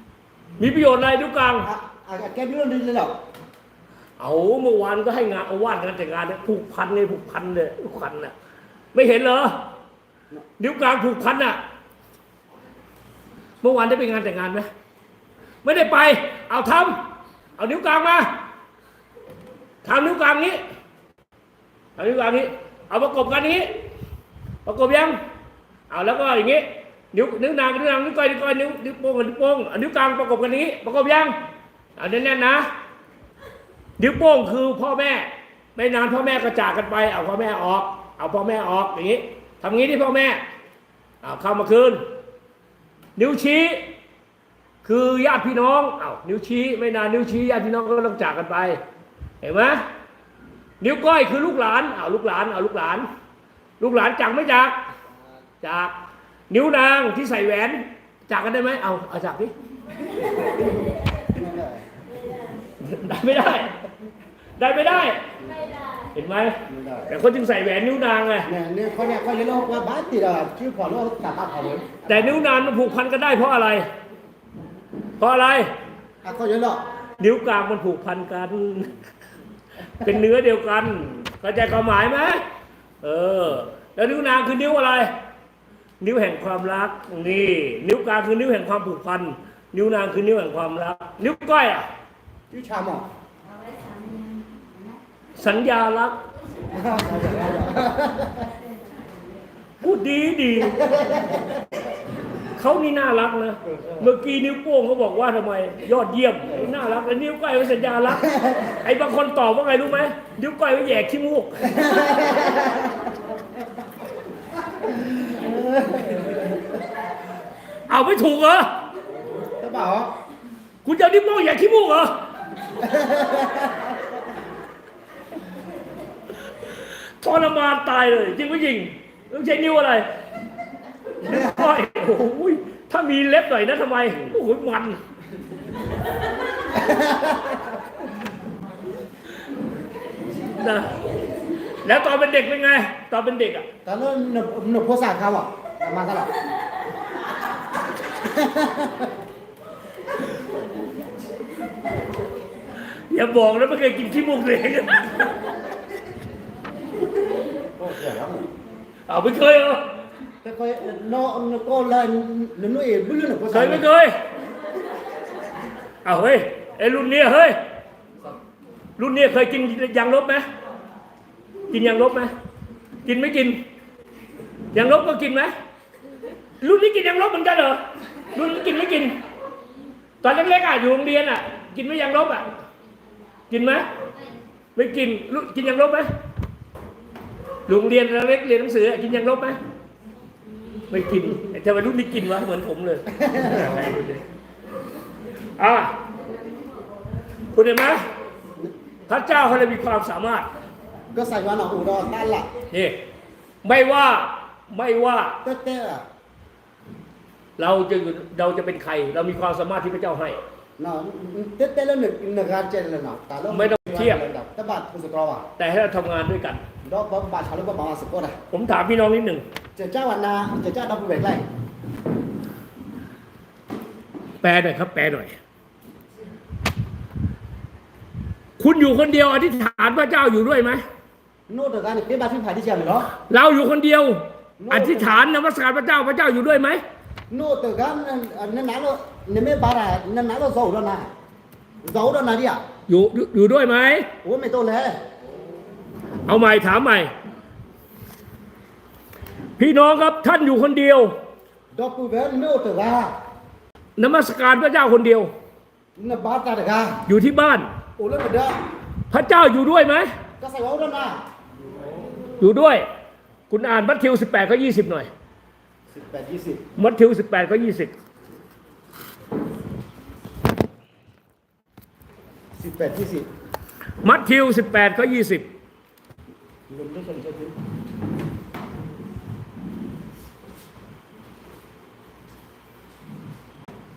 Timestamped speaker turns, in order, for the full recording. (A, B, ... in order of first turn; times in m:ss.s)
0:00.6-0:01.7 A
0:01.6-0:03.2 B
0:04.2-0:08.3 A
0:08.9-0:09.7 A
0:10.6-0:11.6 A
0:13.6-0:14.7 A
0:15.6-0:18.4 A
0:19.8-0:20.6 A
0:22.0-0:23.7 A
0:24.6-0:25.2 A
0:25.9-0:31.4 A
0:32.0-0:32.7 A
0:34.0-0:40.4 A
0:41.2-0:42.0 A
0:43.2-0:43.9 A
0:44.8-0:48.8 A
0:49.4-0:49.8 A
0:50.8-0:53.1 A
0:53.8-0:54.8 A
0:55.6-0:56.0 A
0:56.5-0:59.5 A
1:00.3-1:01.8 B
1:02.8-1:03.8 A
1:04.6-1:05.2 A
1:06.1-1:06.6 A
1:06.7-1:07.1 B
1:07.1-1:08.5 A
1:08.5-1:12.4 B
1:12.1-1:13.9 A
1:15.2-1:15.7 A
1:16.2-1:16.8 B
1:17.2-1:19.0 A
1:20.0-1:22.4 A
1:23.0-1:25.1 A
1:26.0-1:31.9 A
1:32.5-1:33.1 B
1:35.4-1:36.2 A
1:36.7-1:38.5 B
1:39.8-1:41.0 A
1:40.8-1:41.6 B
1:42.6-1:51.9 A
1:43.7-1:44.0 B
1:51.8-1:52.9 B
1:55.0-1:56.6 B
1:57.9-1:58.7 A
1:59.6-2:00.1 B
2:00.8-2:02.1 A
2:02.9-2:03.7 B
2:06.6-2:10.1 A
2:11.2-2:15.0 A
2:16.8-2:17.5 B
2:20.5-2:20.9 A
2:21.8-2:23.7 A
2:23.8-2:26.3 B
2:28.2-2:29.1 B
2:32.8-2:35.4 A
2:37.8-2:38.5 B
2:39.1-2:39.9 A
2:40.4-2:43.9 B
2:43.5-2:44.2 A
2:46.0-2:47.6 A
2:49.0-2:50.4 A
2:51.7-2:52.3 A
2:53.0-2:53.6 A
2:54.7-2:55.5 A
2:56.6-2:57.8 A
2:58.3-2:59.2 A
3:00.2-3:02.5 A
3:03.5-3:03.9 A
3:04.8-3:06.1 A
3:07.7-3:09.6 A
3:10.9-3:14.2 A
3:13.3-3:13.6 B
3:15.6-3:16.0 A
3:17.5-3:18.1 A
3:19.1-3:20.5 A
3:21.1-3:22.5 B
3:22.7-3:23.1 A
3:23.6-3:25.4 A
3:25.4-3:26.0 B
3:27.6-3:30.4 A
3:30.8-3:35.5 B
3:33.5-3:34.2 A
3:35.6-3:36.6 A
3:36.8-3:38.4 B
3:38.5-3:39.4 A
3:39.8-3:41.4 B
3:44.4-3:45.4 A
3:48.6-3:50.8 A
3:51.5-3:53.1 B
3:53.2-3:56.8 A
3:54.6-3:55.2 B
3:57.3-4:01.1 B
4:01.8-4:02.6 B
4:02.9-4:04.1 A
4:04.2-4:05.0 B
4:06.3-4:07.1 A
4:09.6-4:11.1 A
4:11.7-4:13.1 B
4:14.0-4:15.3 A
4:16.0-4:17.0 B
4:17.1-4:17.7 A
4:18.0-4:18.6 B
4:19.1-4:20.1 A
4:20.4-4:21.2 B
4:22.4-4:22.8 A
4:23.5-4:25.1 A
4:25.9-4:26.6 B
4:26.8-4:27.9 A
4:32.6-4:33.3 B
4:34.0-4:35.5 A
4:36.7-4:37.6 B